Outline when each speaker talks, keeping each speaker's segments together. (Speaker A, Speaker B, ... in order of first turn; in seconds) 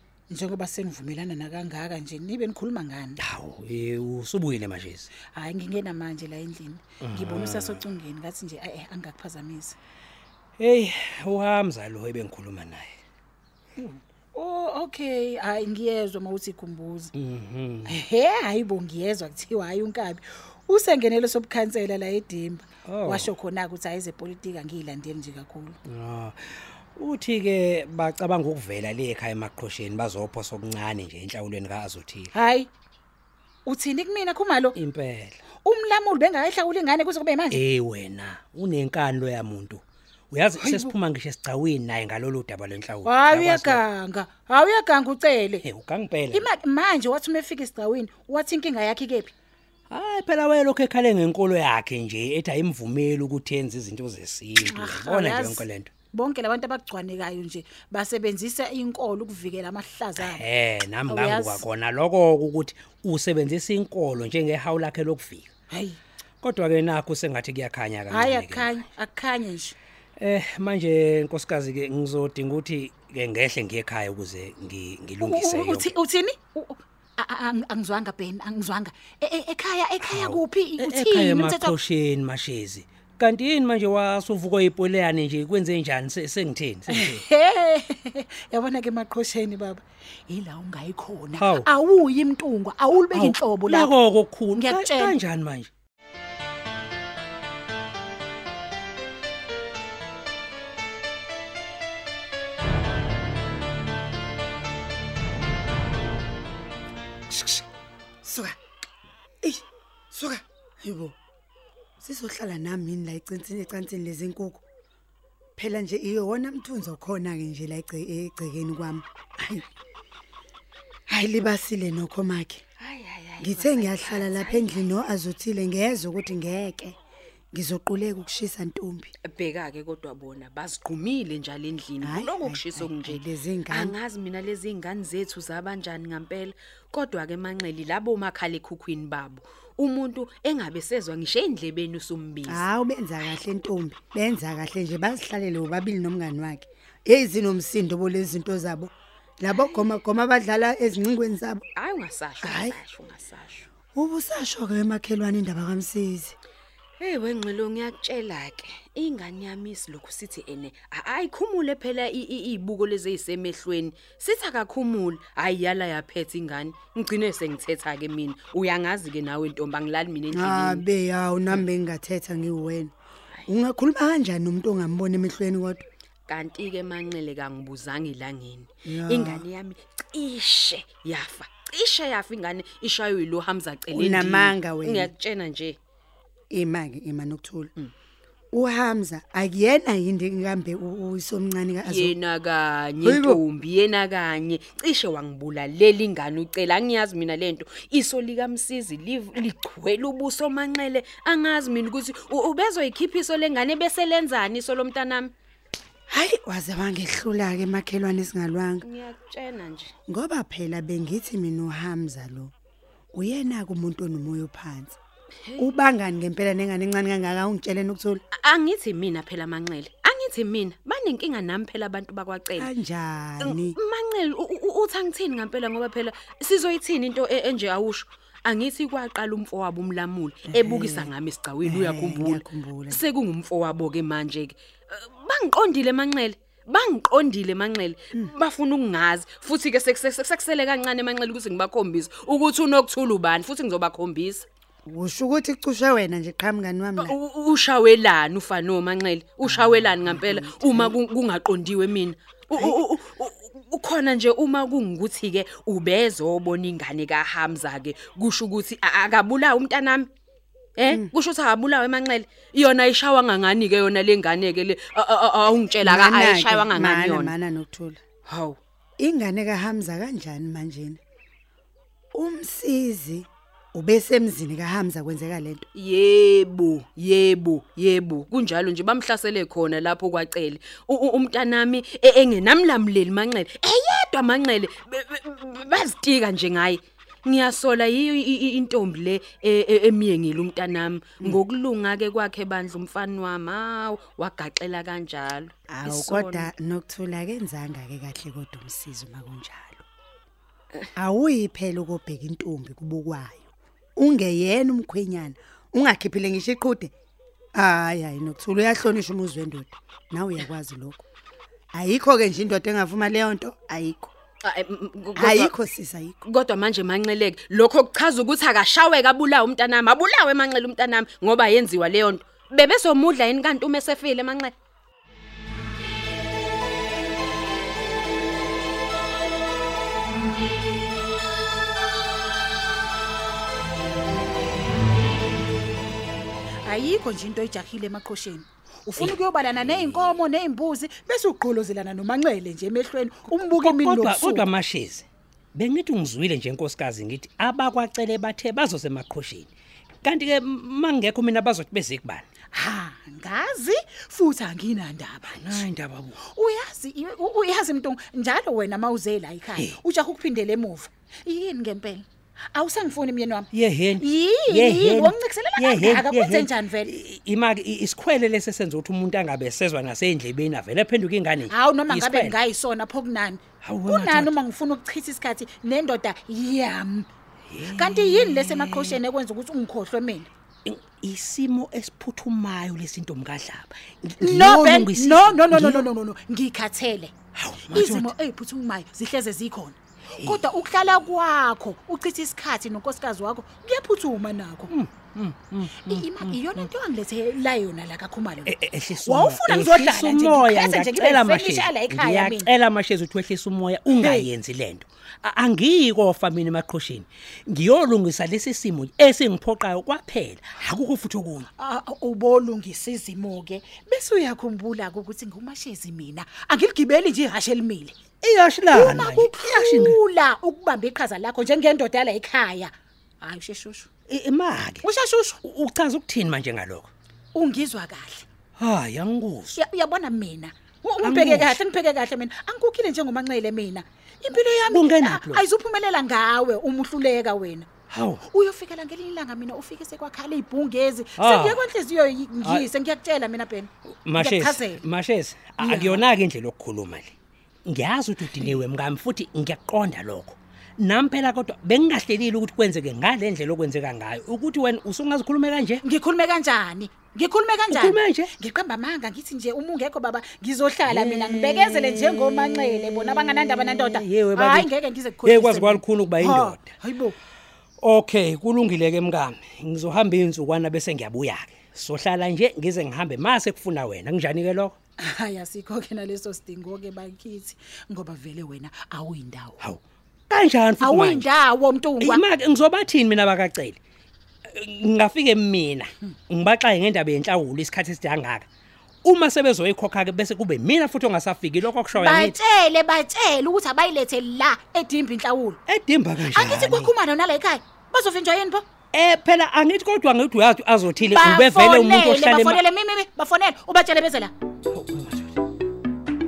Speaker A: 0.3-3.2, 5.3-9.8, 13.8-17.1, 17.9-25.8, 32.3-32.7, 33.6-34.8, 35.6-37.6, 40.6-40.9, 43.0-45.6, 46.3-49.3, 54.6-60.4, 61.1-61.6, 65.7-66.0, 68.1-69.8, 75.2-81.8, 86.9-93.9, 94.5-95.1, 336.6-344.5, 352.5-355.6, 356.3-363.5, 364.0-366.9, 371.5-377.1, 377.7-380.3, 384.2-387.1, 387.7-394.7, 395.8-398.5, 399.1-402.5, 403.9-404.3, 411.6-417.9, 418.7-423.9, 424.8-425.4, 427.3-428.2, 429.6-437.7, 438.3-444.8, 445.6-446.1, 455.8-467.1, 475.0-479.6, 480.8-482.2, 491.9-495.6, 496.3-498.6, 501.0-504.3
Speaker B: 3.2-5.1, 7.0-7.8, 10.6-12.9, 17.1-18.0, 22.9-23.3, 25.9-32.3, 34.7-35.4, 37.5-43.8, 45.6-46.5, 49.9-55.9, 60.2-65.5, 66.4-68.8, 70.2-76.0, 80.0-87.2, 91.4-91.7, 93.1-95.7, 339.0-340.2, 343.5-349.5, 350.0-352.2, 355.3-356.2, 363.5-372.4, 373.6-374.4, 377.5-379.0, 380.6-385.9, 387.4-388.1, 390.1-390.5, 394.7-396.7, 398.5-411.5, 418.2-420.0, 424.1-424.9, 425.4-426.9, 428.6-429.6, 431.0-431.6, 434.7-435.4, 437.9-438.2, 441.2-441.6, 442.4-442.7, 444.1-447.1, 447.6-455.8, 457.7-458.3, 460.9-464.7, 465.2-466.7, 467.8-474.8, 479.6-481.3, 482.0-483.8, 484.5-488.5, 489.0-492.4, 495.6-496.9, 498.9-502.6, 504.7-505.4
Speaker C: 107.3-107.6, 108.2-108.6, 109.4-111.2, 112.0-114.6, 115.6-119.6, 121.1-122.6, 123.4-127.0, 127.5-129.1, 132.0-133.9, 142.5-151.6, 152.4-152.8, 153.9-156.3, 170.3-172.9, 173.5-175.9, 178.8-179.4, 183.9-185.1, 186.5-187.7, 188.5-192.2, 193.0-193.4, 206.1-208.9, 210.1-212.5, 213.1-215.0, 215.6-218.2, 222.6-223.8, 230.5-233.0, 244.9-247.1, 249.4-250.9, 252.5-252.8, 265.8-268.0, 269.0-271.0, 272.1-275.6, 295.7-299.9, 301.0-306.9, 307.6-311.0, 311.7-314.1, 315.1-316.2
Speaker D: 122.8-124.8, 129.2-142.6, 149.5-149.8, 151.8-153.7, 157.0-170.8, 176.3-185.8, 191.8-205.3, 208.8-209.9, 215.4-215.7, 218.3-222.7, 223.4-244.5, 247.0-260.1, 260.8-267.4, 268.2-268.6, 275.8-296.5, 314.4-315.5, 316.2-324.5